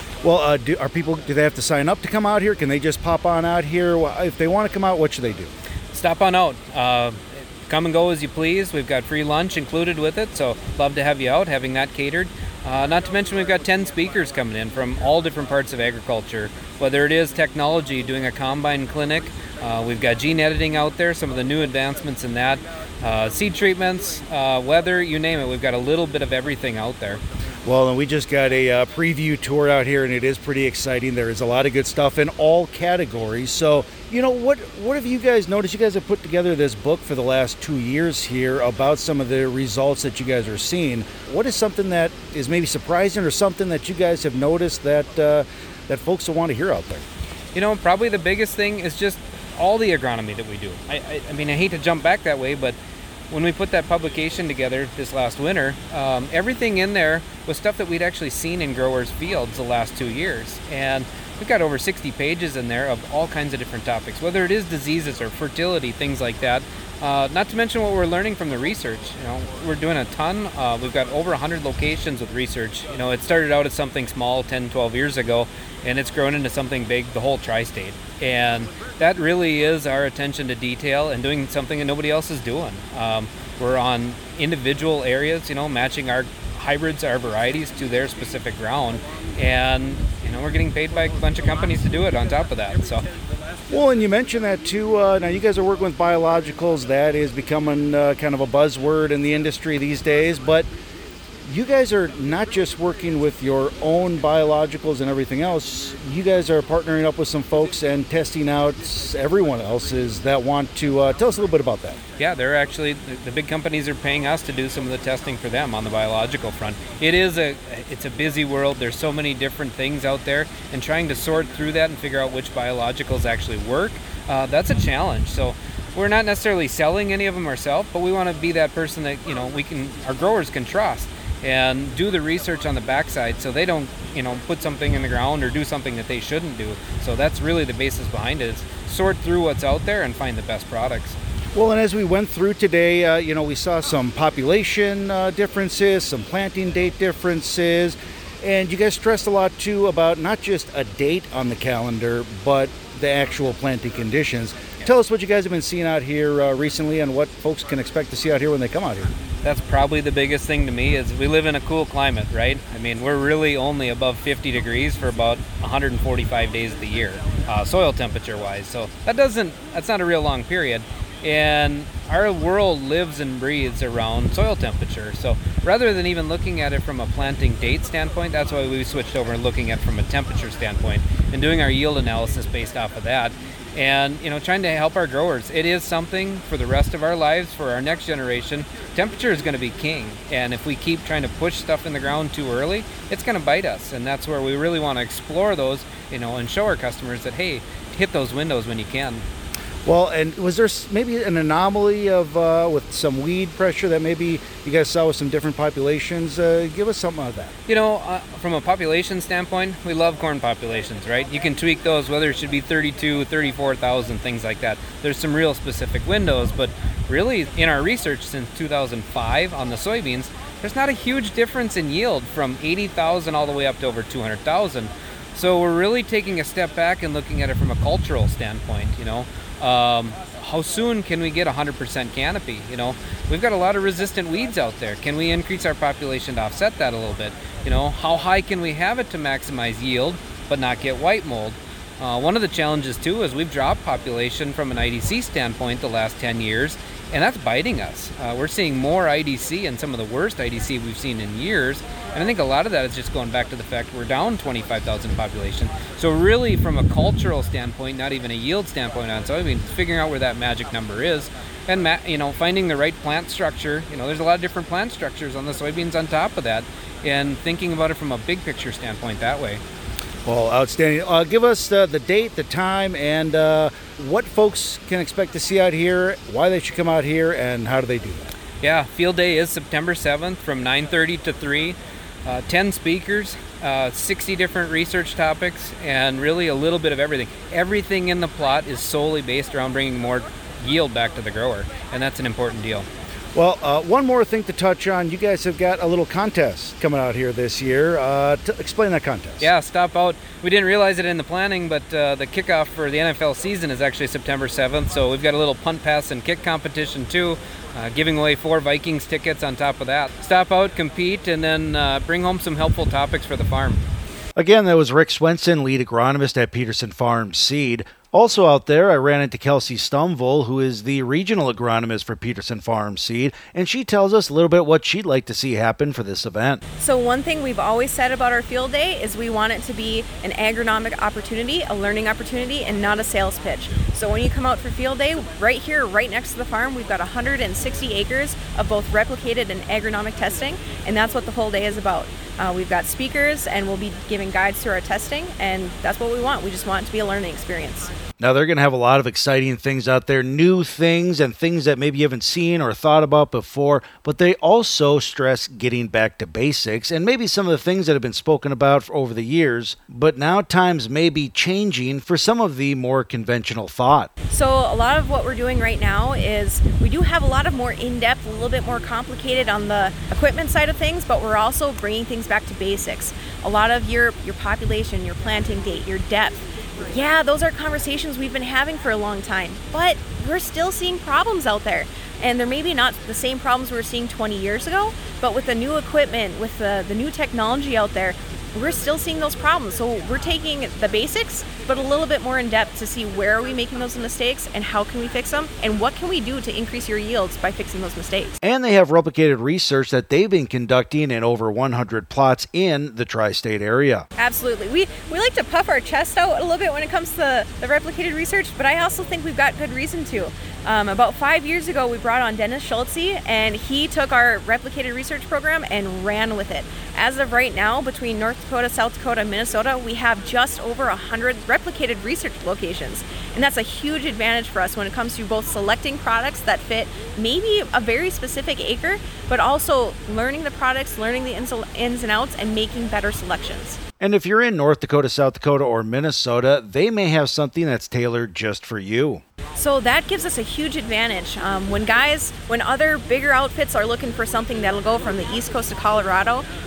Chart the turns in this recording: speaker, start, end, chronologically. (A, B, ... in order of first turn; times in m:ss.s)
0:00.2-0:05.5 A
0:05.9-0:07.2 B
0:07.7-0:27.2 B
0:27.7-0:47.0 A
0:47.6-0:52.8 B
0:53.3-1:33.1 B
1:33.7-1:40.7 A
1:41.5-1:52.0 A
1:52.2-2:21.2 B
2:21.6-2:39.2 A
2:39.4-3:19.2 B
3:19.9-3:27.6 A
3:27.7-4:29.6 B
4:30.3-4:38.3 A
4:38.6-4:52.9 B
4:53.4-4:59.5 A
4:59.4-5:13.9 B
5:14.4-5:26.6 A
5:26.8-5:47.9 C
5:48.2-6:04.1 A
6:04.3-6:38.4 C
6:38.4-6:44.1 A
6:44.2-7:13.8 C
7:14.0-7:19.2 A
7:19.6-7:26.5 C